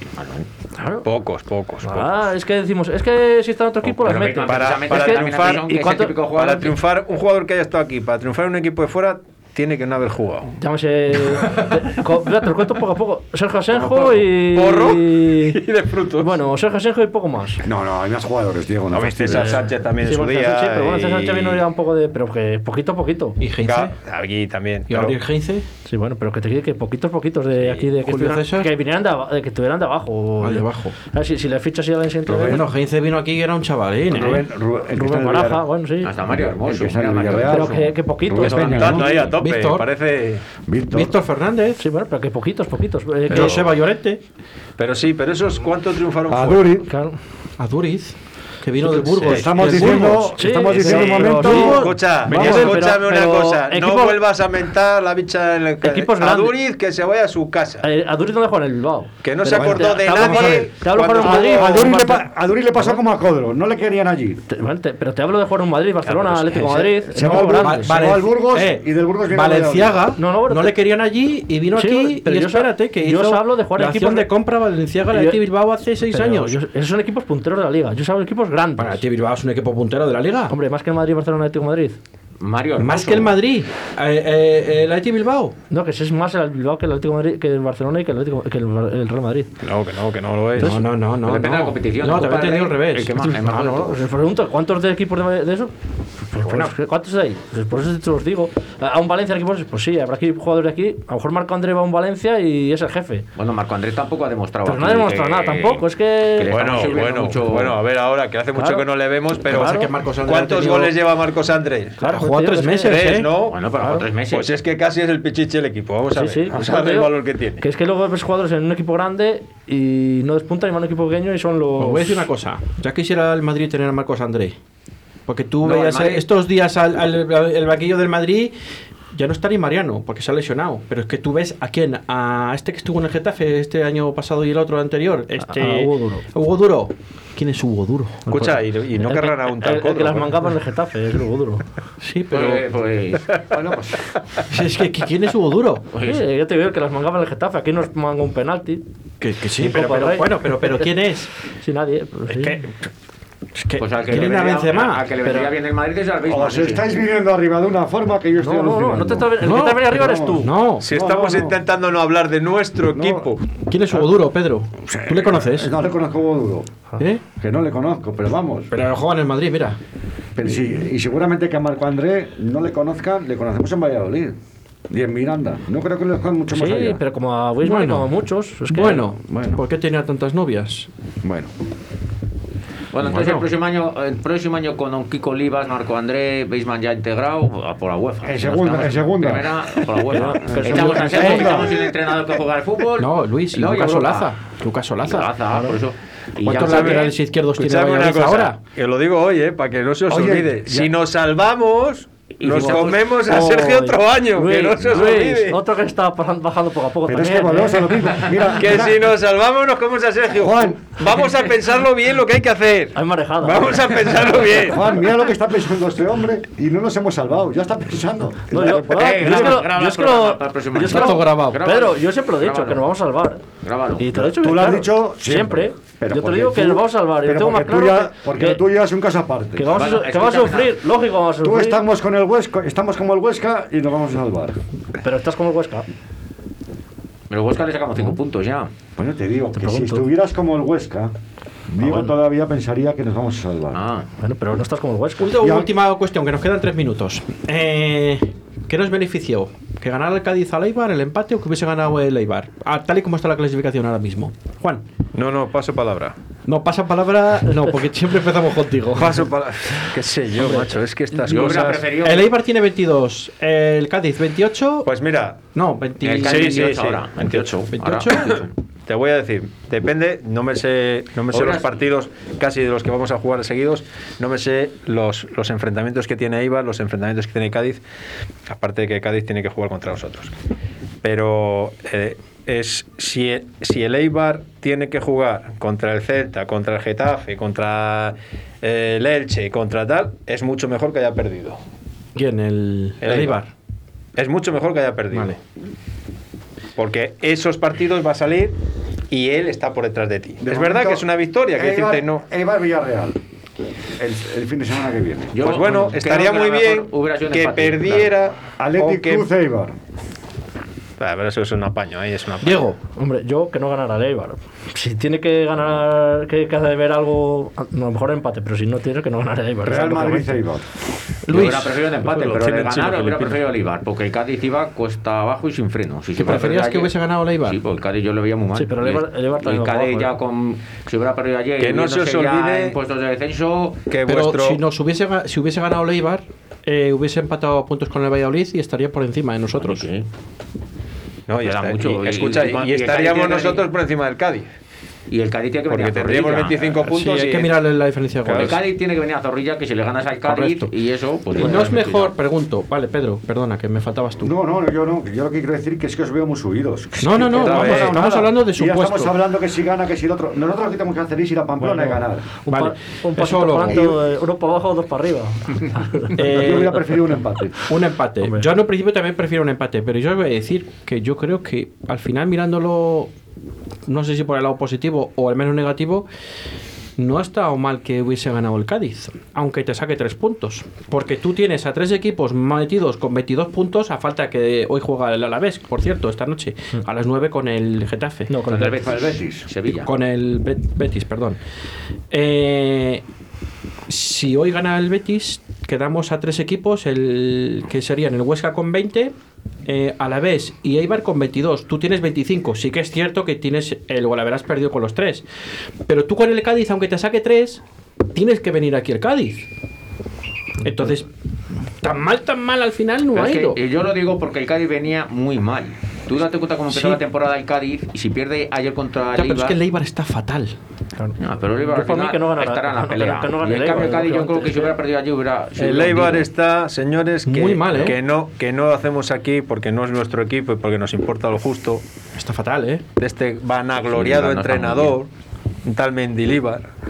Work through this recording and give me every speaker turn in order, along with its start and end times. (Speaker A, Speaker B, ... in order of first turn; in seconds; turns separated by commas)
Speaker A: 0.2-0.5, Speaker B: 0.8-1.0, Speaker C: 1.0-2.2, Speaker B: 1.8-6.2, Speaker A: 3.9-6.8, Speaker C: 4.3-5.8, Speaker C: 6.3-10.5, Speaker B: 10.6-15.6, Speaker C: 13.7-16.3, Speaker B: 16.2-17.6, Speaker D: 17.6-19.6, Speaker C: 18.9-21.6, Speaker B: 19.3-23.4, Speaker E: 23.4-23.9, Speaker C: 23.6-25.2, Speaker E: 24.9-25.6, Speaker B: 25.9-32.6, Speaker E: 28.0-28.7, Speaker E: 30.4-30.9, Speaker D: 32.2-32.6, Speaker E: 32.5-34.4, Speaker D: 34.1-35.6, Speaker B: 35.0-36.1, Speaker A: 36.0-37.9, Speaker D: 36.2-39.1, Speaker B: 37.5-38.6, Speaker A: 38.4-39.3, Speaker C: 38.4-40.4, Speaker E: 39.4-39.9, Speaker D: 40.6-41.1, Speaker E: 40.9-41.8, Speaker B: 41.8-43.6, Speaker E: 43.3-44.2, Speaker C: 44.8-46.8, Speaker D: 46.3-46.9, Speaker B: 46.9-47.1, Speaker E: 47.6-50.4, Speaker C: 49.1-50.1, Speaker D: 49.2-51.8, Speaker B: 50.3-54.2, Speaker C: 50.7-57.9, Speaker E: 51.1-52.8, Speaker B: 55.8-56.6, Speaker B: 57.8-63.0, Speaker C: 59.2-62.0, Speaker D: 59.4-64.4, Speaker B: 64.5-68.0, Speaker C: 66.1-66.6, Speaker E: 66.8-76.6, Speaker D: 67.1-70.0, Speaker B: 70.2-70.8, Speaker B: 71.7-74.3, Speaker B: 75.1-75.4, Speaker B: 76.0-79.0, Speaker E: 78.8-80.5, Speaker B: 80.5-82.0, Speaker A: 82.4-83.3, Speaker E: 82.8-85.5, Speaker B: 85.7-89.5, Speaker C: 89.6-90.7, Speaker E: 90.6-93.3, Speaker A: 91.2-94.0, Speaker B: 93.2-95.7, Speaker B: 96.3-103.2, Speaker E: 96.4-96.7, Speaker A: 103.3-107.8, Speaker B: 104.6-106.6, Speaker C: 106.5-112.0, Speaker B: 108.5-108.8, Speaker B: 109.5-109.9, Speaker E: 109.5-110.9, Speaker E: 112.0-113.3, Speaker B: 112.0-113.1, Speaker C: 112.8-113.6, Speaker A: 113.5-114.5, Speaker B: 113.8-114.0, Speaker C: 114.3-117.6, Speaker B: 116.1-122.3, Speaker E: 121.8-124.5, Speaker E: 125.3-128.5, Speaker A: 125.6-126.2, Speaker E: 129.1-138.2, Speaker B: 135.4-136.2, Speaker C: 138.3-140.4, Speaker B: 138.3-141.7, Speaker E: 142.0-142.6, Speaker A: 142.3-143.7, Speaker D: 143.5-144.0, Speaker E: 144.5-145.8, Speaker A: 145.9-146.2, Speaker B: 146.0-148.8, Speaker E: 149.2-151.3, Speaker B: 149.6-150.9, Speaker B: 151.6-152.6, Speaker E: 152.3-152.7, Speaker E: 153.6-155.0, Speaker A: 153.8-156.9, Speaker B: 155.2-155.5, Speaker D: 156.2-161.6, Speaker B: 158.4-160.5, Speaker E: 159.4-160.8, Speaker C: 160.8-163.4, Speaker D: 162.9-163.3, Speaker E: 163.7-165.7, Speaker D: 164.8-166.7, Speaker D: 167.4-168.7, Speaker E: 168.7-169.8, Speaker D: 170.3-174.4, Speaker D: 174.9-177.0, Speaker B: 176.5-179.1, Speaker E: 177.6-178.1, Speaker E: 178.7-180.9, Speaker D: 179.2-179.6, Speaker D: 181.2-181.5, Speaker A: 182.9-194.3, Speaker E: 183.0-183.4, Speaker D: 188.2-191.9, Speaker B: 190.2-190.8, Speaker E: 193.0-195.3, Speaker A: 195.0-197.1, Speaker B: 195.5-195.8, Speaker E: 196.4-198.6, Speaker C: 196.5-205.6, Speaker D: 200.1-200.9, Speaker A: 202.4-203.2, Speaker B: 203.2-208.3, Speaker D: 207.1-209.1, Speaker C: 208.5-214.9, Speaker D: 210.3-211.0, Speaker B: 212.9-213.8, Speaker D: 214.6-219.6, Speaker B: 218.5-223.4, Speaker A: 218.9-222.8, Speaker E: 220.8-221.6, Speaker A: 223.6-224.3, Speaker B: 224.0-228.6, Speaker D: 224.2-229.8, Speaker B: 229.6-231.8, Speaker A: 229.7-230.8, Speaker D: 231.4-234.6, Speaker B: 235.0-235.8, Speaker A: 237.3-238.7, Speaker D: 239.0-241.1, Speaker B: 239.6-240.1, Speaker D: 241.7-243.8, Speaker B: 241.8-242.1, Speaker A: 243.7-244.1, Speaker B: 244.2-245.4, Speaker E: 245.2-254.8, Speaker D: 245.4-245.7, Speaker C: 255.1-256.1, Speaker E: 256.4-259.3, Speaker C: 258.9-261.9, Speaker B: 260.4-260.6, Speaker A: 261.1-262.3, Speaker E: 262.0-264.9, Speaker C: 264.8-265.4, Speaker E: 265.5-266.9, Speaker A: 266.0-268.5, Speaker C: 266.2-267.6, Speaker E: 267.7-268.4, Speaker C: 268.9-277.8, Speaker A: 271.3-271.8, Speaker C: 278.5-280.3, Speaker C: 281.0-291.6, Speaker E: 292.1-293.5, Speaker C: 293.0-293.4, Speaker C: 294.1-295.4, Speaker C: 296.8-298.6, Speaker C: 299.1-302.2, Speaker D: 300.4-303.2, Speaker D: 304.0-305.4, Speaker A: 305.3-308.1, Speaker C: 305.4-309.3, Speaker D: 308.6-309.8, Speaker C: 311.0-312.7, Speaker E: 312.4-312.8, Speaker B: 312.9-320.4, Speaker D: 319.6-320.6, Speaker E: 321.2-322.9, Speaker A: 321.3-333.8, Speaker C: 322.3-323.4, Speaker E: 326.2-327.6, Speaker B: 328.6-330.1, Speaker C: 331.6-332.7, Speaker C: 333.9-334.6, Speaker E: 334.1-339.8, Speaker A: 339.6-340.1, Speaker C: 341.3-344.5, Speaker A: 341.4-343.7, Speaker A: 345.1-346.9, Speaker C: 345.7-347.6, Speaker E: 346.9-348.6, Speaker C: 348.2-348.6, Speaker A: 348.3-352.1, Speaker E: 350.2-350.7, Speaker E: 351.4-354.3, Speaker D: 354.2-362.2, Speaker E: 357.0-359.2, Speaker C: 357.2-358.1, Speaker B: 361.6-366.6, Speaker E: 362.5-363.8, Speaker D: 363.7-363.9, Speaker E: 366.1-366.8, Speaker D: 366.2-367.6, Speaker E: 367.7-373.1, Speaker B: 368.2-368.5, Speaker E: 373.9-376.1, Speaker E: 377.0-388.3, Speaker B: 388.3-388.9, Speaker A: 388.5-389.9, Speaker D: 388.8-389.4, Speaker E: 389.8-391.4, Speaker E: 392.1-393.0, Speaker E: 393.9-399.1, Speaker E: 399.6-405.2, Speaker E: 405.9-407.6, Speaker E: 408.1-409.5, Speaker E: 410.6-411.1, Speaker E: 411.8-413.6, Speaker A: 413.1-419.6, Speaker E: 416.7-417.0, Speaker E: 419.1-420.6, Speaker B: 421.0-424.8, Speaker A: 421.2-426.3, Speaker C: 425.6-431.8, Speaker E: 427.2-428.0, Speaker E: 432.1-432.8, Speaker C: 433.0-435.1, Speaker A: 433.8-435.0, Speaker C: 435.6-436.6